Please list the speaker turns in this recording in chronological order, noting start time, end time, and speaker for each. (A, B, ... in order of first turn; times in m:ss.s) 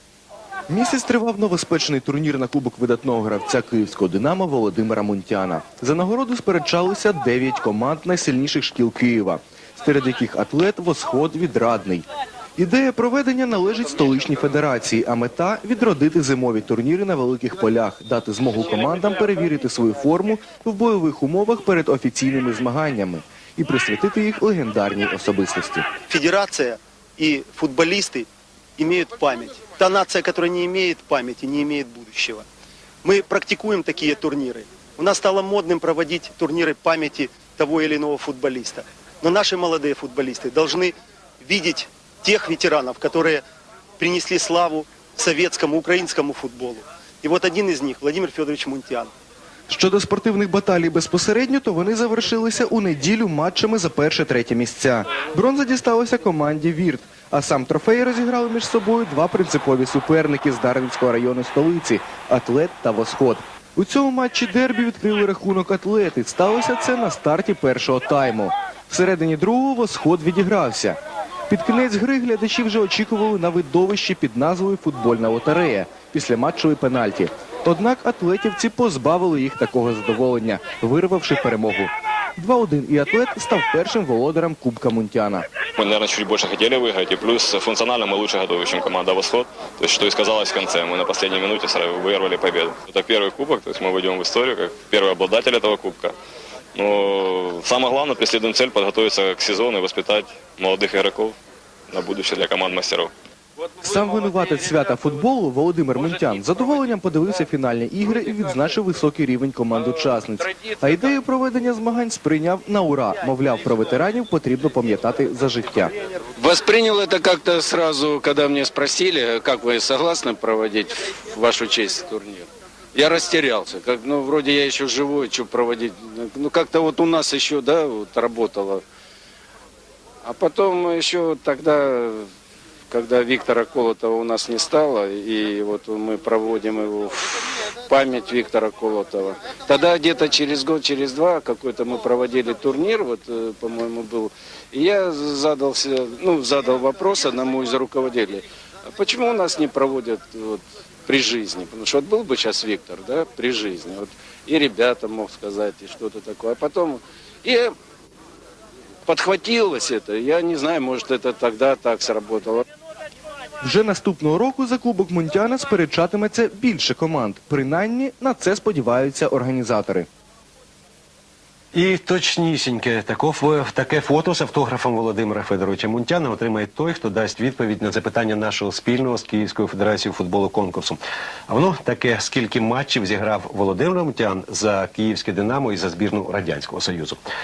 0:00.7-0:12.0 A
0:12.6-0:25.8 A
0:26.1-0:28.3 B
0:28.8-0:32.4 B
0:33.0-0:43.4 B
0:44.0-0:49.1 B
0:49.7-1:11.0 A
1:11.5-1:25.4 A
1:25.8-1:36.1 C
1:36.7-1:41.4 C
1:41.9-1:43.1 C
1:43.8-1:55.9 A
1:56.4-2:08.8 D
2:10.2-2:12.3 D
2:12.9-2:37.7 D
2:39.0-2:42.6 D
2:43.6-2:50.1 A
2:51.7-3:07.2 E